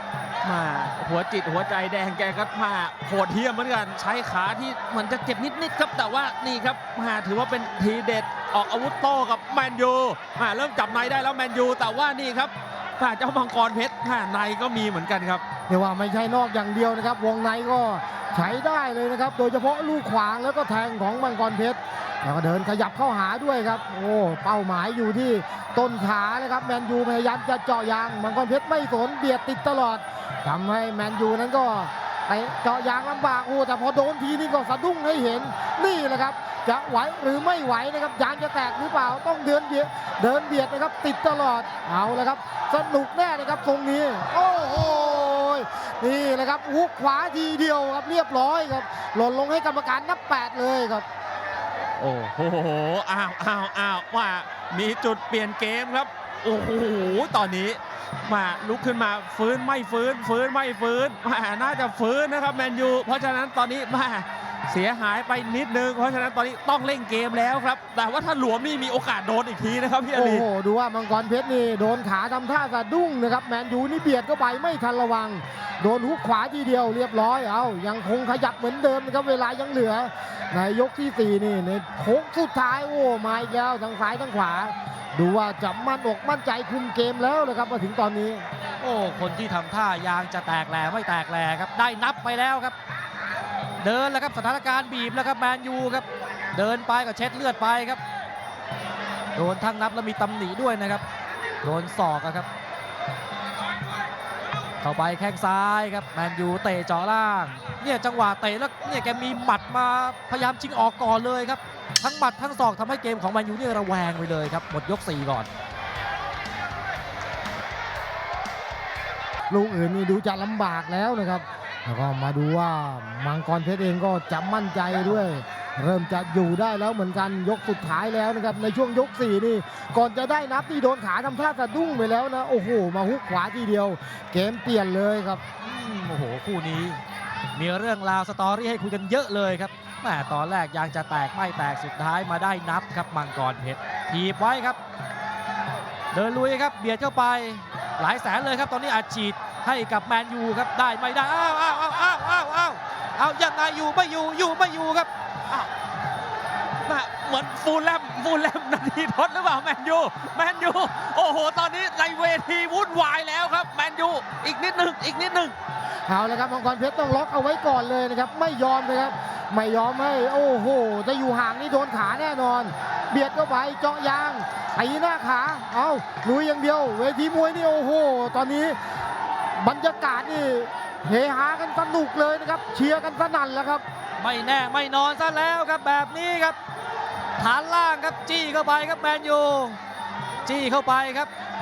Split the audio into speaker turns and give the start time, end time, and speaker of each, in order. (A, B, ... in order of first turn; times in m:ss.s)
0:00.4-0:15.4 A
0:15.7-0:51.0 B
0:52.0-1:10.4 A
1:10.1-1:28.4 B
1:28.8-1:32.7 C
1:33.8-1:38.0 C
1:39.4-1:41.0 C
1:41.6-1:42.5 C
1:44.8-1:55.5 C
1:59.5-2:15.4 B
2:15.6-2:17.0 C
2:17.5-2:24.8 C
2:26.1-2:35.1 C
2:36.8-2:45.6 A
2:46.1-2:58.8 B
2:59.6-3:03.8 B
3:04.2-3:06.6 C
3:07.4-3:09.8 C
3:10.4-3:11.3 C